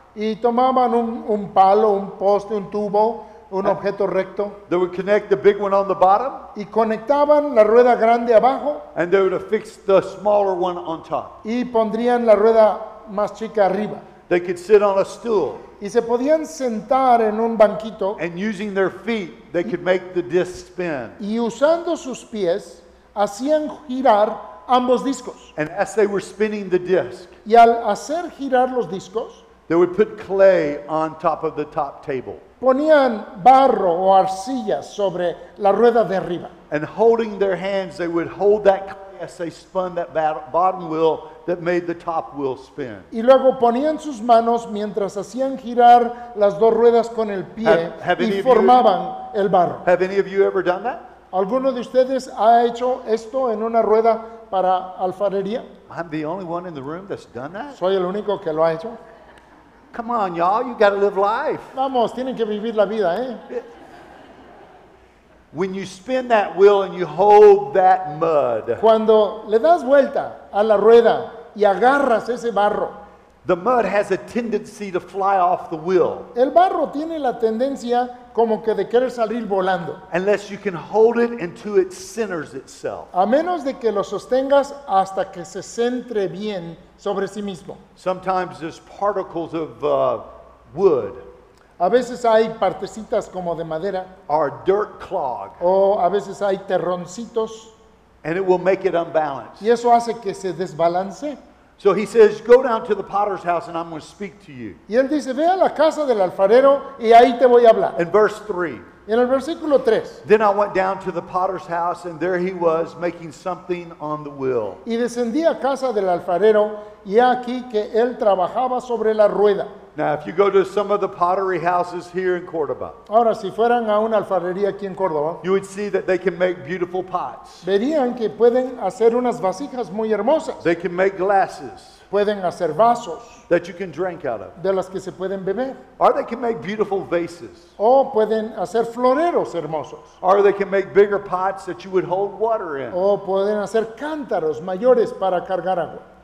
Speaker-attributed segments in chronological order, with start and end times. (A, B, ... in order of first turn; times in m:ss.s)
0:00.1-0:04.6 A
0:04.7-0:06.4 B
0:06.5-0:08.9 A
0:08.9-0:11.4 B
0:11.4-0:14.0 A
0:14.3-0:15.6 B
0:15.8-0:18.2 A
0:18.2-0:21.2 B
0:21.2-0:25.5 A
0:25.6-0:27.3 B
0:27.4-0:29.4 A
0:29.7-0:32.4 B
0:32.6-0:36.5 A
0:36.7-0:43.1 B
0:43.1-0:49.8 A
0:47.6-0:48.9 B
0:49.8-0:51.0 B
0:51.3-0:55.7 A
0:55.9-0:57.8 B
0:57.7-0:59.0 A
0:59.9-1:01.7 B
1:01.7-1:03.5 A
1:05.5-1:08.8 B
1:08.8-1:13.0 A
1:13.4-1:16.3 B
1:16.3-1:20.0 A
1:20.1-1:23.1 B
1:23.1-1:27.8 A
1:28.0-1:31.2 B
1:31.8-1:34.1 A
1:34.3-1:35.6 B
1:35.6-1:37.7 A
1:38.2-1:39.6 B
1:39.6-1:41.4 A
1:41.8-1:44.8 B
1:44.9-1:48.0 A
1:48.0-1:48.8 B
1:49.0-1:50.2 A
1:50.2-1:54.8 B
1:54.8-1:59.7 A
1:59.9-2:03.0 B
2:03.1-2:05.4 A
2:05.4-2:07.6 B
2:07.6-2:10.7 A
2:10.6-2:12.0 B
2:12.1-2:13.4 A
2:13.5-2:14.5 B
2:14.6-2:15.8 A
2:16.0-2:17.7 B
2:17.8-2:20.1 A
2:20.2-2:23.0 B
2:22.9-2:26.0 A